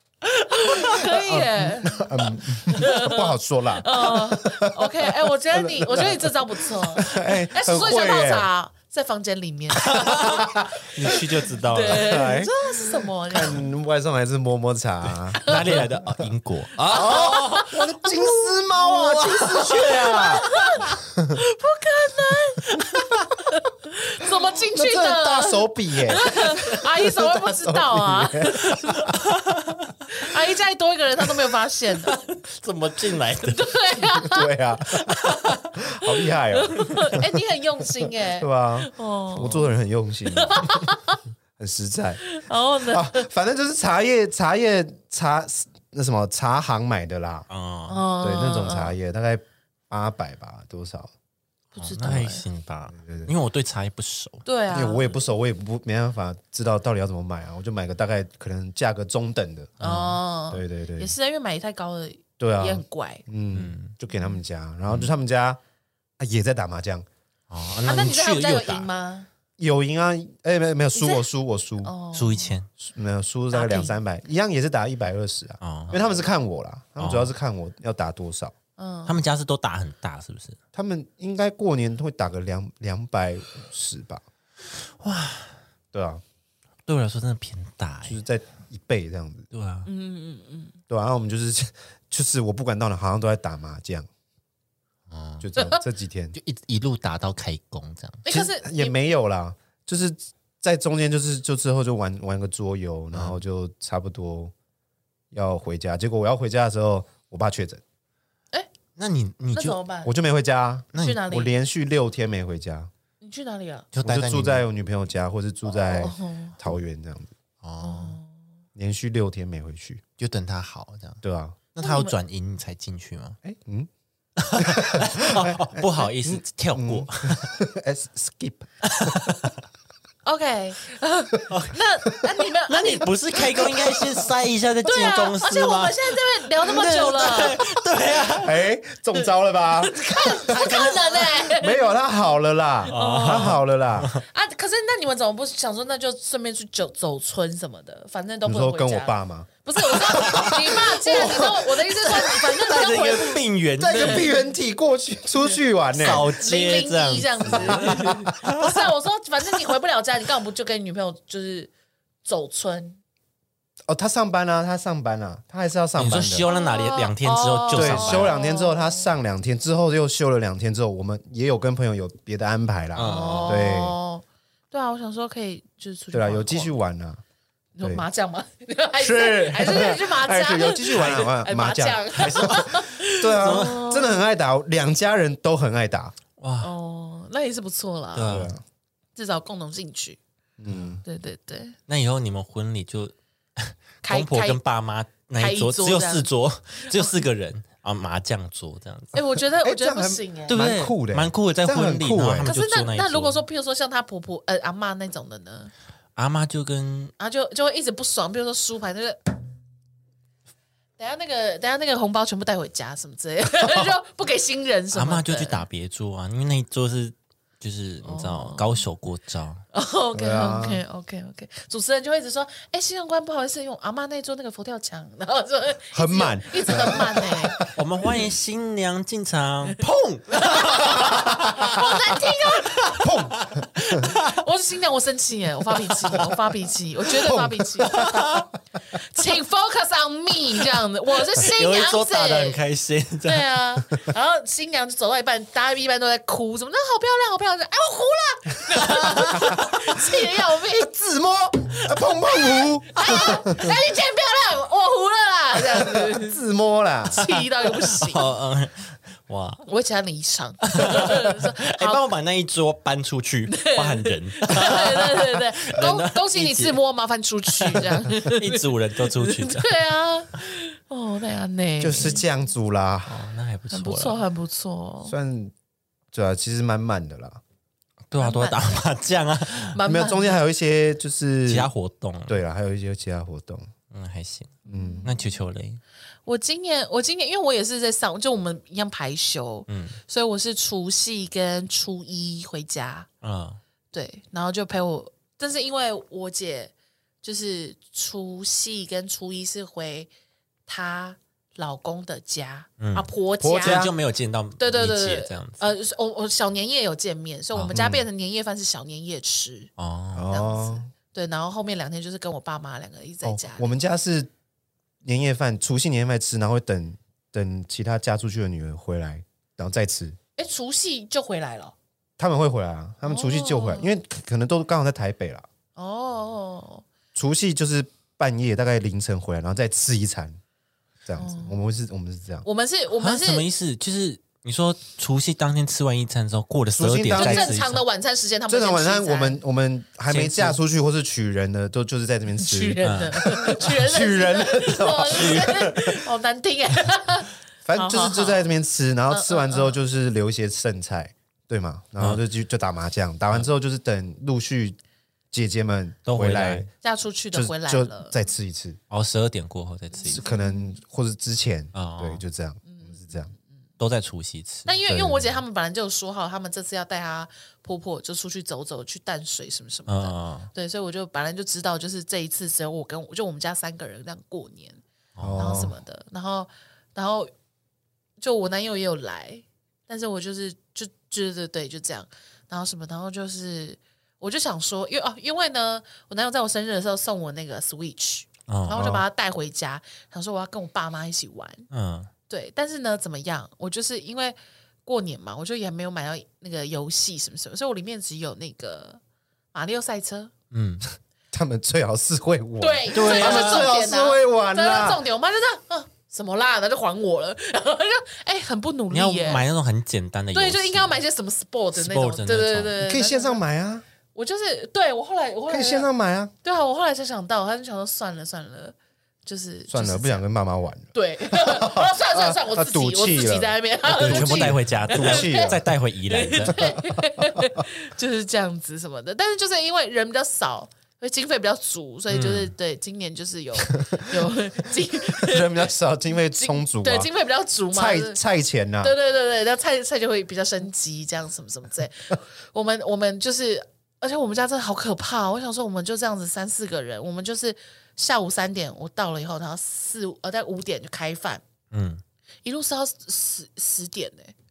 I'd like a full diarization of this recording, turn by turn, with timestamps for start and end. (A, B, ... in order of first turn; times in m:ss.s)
0:00.2-0:13.7 A
0:01.1-0:08.5 B
0:09.8-0:12.4 C
0:10.1-0:10.7 B
0:11.8-0:16.1 B
0:15.4-0:15.8 A
0:15.4-0:17.7 C
0:16.9-0:20.5 B
0:16.9-0:29.1 A
0:18.9-0:20.8 C
0:24.6-0:29.1 B
0:29.0-0:30.0 C
0:30.1-0:32.2 A
0:32.0-0:33.8 C
0:33.4-0:34.5 A
0:34.1-0:35.2 B
0:35.2-0:35.6 C
0:35.8-0:40.9 B
0:36.1-0:39.7 A
0:40.3-0:41.2 A
0:41.6-0:47.5 B
0:42.3-0:43.3 A
0:47.5-0:48.0 C
0:47.9-0:49.0 A
0:48.2-0:51.1 B
0:51.7-0:52.4 A
0:51.8-0:54.4 C
0:52.9-0:53.3 B
0:54.4-0:55.2 A
0:54.7-0:59.8 B
0:59.8-1:00.2 C
0:59.8-1:03.2 A
1:00.5-1:01.1 B
1:02.4-1:05.6 B
1:03.5-1:04.0 C
1:04.1-1:04.4 A
1:06.2-1:07.1 B
1:07.5-1:08.9 C
1:07.8-1:09.3 A
1:09.6-1:11.9 B
1:11.0-1:11.3 A
1:11.8-1:12.6 A
1:12.1-1:12.7 C
1:12.8-1:18.5 B
1:13.5-1:14.0 A
1:15.6-1:16.0 C
1:17.0-1:17.3 C
1:18.8-1:19.2 A
1:19.1-1:20.6 C
1:20.7-1:24.2 B
1:24.8-1:25.6 C
1:25.9-1:26.2 B
1:26.9-1:28.2 C
1:28.1-1:29.5 B
1:29.5-1:29.9 C
1:29.9-1:30.8 A
1:30.9-1:34.1 B
1:35.1-1:35.5 C
1:35.4-1:36.4 B
1:36.3-1:38.2 C
1:38.2-1:39.0 A
1:38.3-1:44.5 B
1:43.1-1:43.4 C
1:45.3-1:47.8 B
1:49.0-1:49.8 C
1:49.5-1:50.1 A
1:50.0-1:52.9 B
1:50.9-1:51.2 C
1:51.0-1:51.5 A
1:53.2-1:53.9 A
1:53.9-1:54.7 C
1:54.0-1:57.3 B
1:55.7-1:56.6 A
1:57.6-1:58.2 C
1:57.8-1:58.3 A
1:58.8-2:00.0 B
2:00.2-2:01.2 C
2:01.2-2:01.6 B
2:01.7-2:03.4 C
2:01.8-2:02.2 A
2:03.4-2:03.9 B
2:04.4-2:07.6 C
2:04.6-2:09.4 B
2:08.8-2:09.6 C
2:10.2-2:13.8 A
2:11.5-2:11.8 C
2:12.7-2:18.6 C
2:14.8-2:17.6 A
2:18.3-2:24.2 B
2:19.8-2:21.9 A
2:20.6-2:20.9 C
2:22.9-2:23.6 A
2:22.9-2:24.2 C
2:24.2-2:34.4 A
2:28.4-2:31.8 B
2:30.0-2:31.3 C
2:32.3-2:34.3 C
2:33.8-2:36.3 B
2:35.5-2:41.7 A
2:36.0-2:38.8 C
2:37.5-2:38.3 B
2:42.2-2:43.0 A
2:43.9-2:46.5 B
2:46.0-2:48.3 C
2:46.4-2:49.1 A
2:47.7-2:54.0 B
2:53.0-2:53.7 C
2:53.0-2:56.7 A
2:56.1-2:57.2 B
2:57.8-3:04.2 A
2:59.0-3:06.1 B
3:01.0-3:01.2 C
3:02.2-3:03.9 C
3:06.4-3:06.7 C
3:06.6-3:08.5 A
3:08.2-3:08.5 C
3:08.2-3:08.6 B
3:09.2-3:10.2 A
3:10.6-3:11.0 B
3:11.0-3:11.8 A
3:11.9-3:19.2 C
3:14.0-3:14.6 A
3:15.4-3:16.3 A
3:16.8-3:17.2 A
3:19.1-3:20.6 A
3:19.6-3:22.5 B
3:20.5-3:23.4 C
3:22.4-3:25.7 A
3:26.2-3:27.1 C
3:27.2-3:29.3 A
3:31.0-3:35.6 A
3:34.9-3:39.6 C
3:38.0-3:38.8 A
3:39.7-3:47.7 A
3:40.1-3:40.8 B
3:45.9-3:47.7 B
3:47.8-3:51.8 C
3:50.4-3:53.2 A
3:50.7-3:51.9 B
3:52.6-3:54.4 C
3:53.0-3:54.1 B
3:53.8-3:58.3 A
3:55.9-3:56.2 C
3:57.1-3:58.4 B
3:57.9-3:58.5 C
3:59.0-4:02.6 A
4:01.3-4:03.5 C
4:03.2-4:10.9 A
4:08.8-4:09.7 C
4:10.8-4:13.7 B
4:12.3-4:16.4 A
4:15.7-4:17.3 B
4:17.1-4:18.3 A
4:18.0-4:19.6 C
4:19.7-4:22.0 A
4:20.6-4:26.8 C
4:23.5-4:32.2 A
4:27.5-4:29.8 C
4:31.8-4:33.2 B
4:33.1-4:34.2 C
4:33.7-4:35.2 A
4:35.0-4:35.5 B
4:36.1-4:37.4 B
4:38.1-4:39.8 C
4:38.2-4:38.8 A
4:39.7-4:40.4 A
4:39.8-4:41.7 B
4:41.5-4:42.4 C
4:42.3-4:43.7 B
4:43.9-4:45.8 C
4:44.7-4:45.2 A
4:44.7-4:45.1 B
4:46.3-4:53.1 A
4:49.7-4:50.0 C
4:53.2-4:53.6 C
4:53.9-5:00.1 A
5:00.7-5:03.9 A
5:02.8-5:03.1 C
5:03.4-5:03.9 B
5:03.6-5:05.7 C
5:04.6-5:09.7 A
5:07.7-5:08.0 B
5:09.8-5:10.3 C
5:10.2-5:10.9 B
5:10.3-5:13.7 A
5:13.2-5:14.3 B
5:15.0-5:20.2 B
5:20.4-5:21.8 A
5:22.2-5:25.5 B
5:23.0-5:23.9 A
5:25.8-5:26.8 A
5:27.2-5:30.4 B
5:31.1-5:32.5 B
5:31.2-5:31.6 A
5:32.4-5:33.4 A
5:33.0-5:37.8 C
5:36.8-5:37.5 B
5:37.1-5:39.4 A
5:38.5-5:45.9 B
5:40.1-5:40.6 C
5:42.4-5:48.5 A
5:42.8-5:43.2 C
5:45.1-5:45.8 C
5:47.6-5:54.8 B
5:49.1-5:49.8 A
5:55.3-5:56.7 B
5:56.1-5:56.7 C
5:56.8-5:58.1 A
5:57.3-5:58.8 B
5:58.9-6:00.3 C
6:00.1-6:03.3 B
6:00.1-6:00.8 A
6:01.7-6:02.2 C
6:02.7-6:03.3 A
6:03.8-6:04.7 C
6:04.7-6:14.8 A
6:04.9-6:05.3 B
6:09.9-6:10.5 C
6:15.2-6:15.6 C
6:15.2-6:15.8 B
6:15.4-6:17.3 A
6:18.2-6:31.7 A
6:28.5-6:29.0 C
6:28.8-6:29.0 B
6:31.7-6:32.1 C
6:32.3-6:39.0 A
6:39.5-6:40.3 A
6:40.5-6:40.9 C
6:41.3-6:45.0 B
6:42.6-6:49.4 A
6:42.9-6:43.7 C
6:48.9-6:51.0 C
6:50.3-6:53.4 A
6:51.8-6:52.8 C
6:52.8-6:53.8 B
6:54.2-6:55.9 A
6:55.5-6:56.3 B
6:56.4-6:58.8 A
6:59.3-7:00.2 A
6:59.7-7:05.6 B
7:00.9-7:15.7 A
7:03.9-7:06.7 C
7:06.6-7:07.6 B
7:12.1-7:12.5 C
7:15.1-7:17.1 B
7:16.4-7:18.2 A
7:17.7-7:19.0 B
7:18.8-7:31.4 A
7:31.7-7:32.0 C
7:32.4-7:34.3 A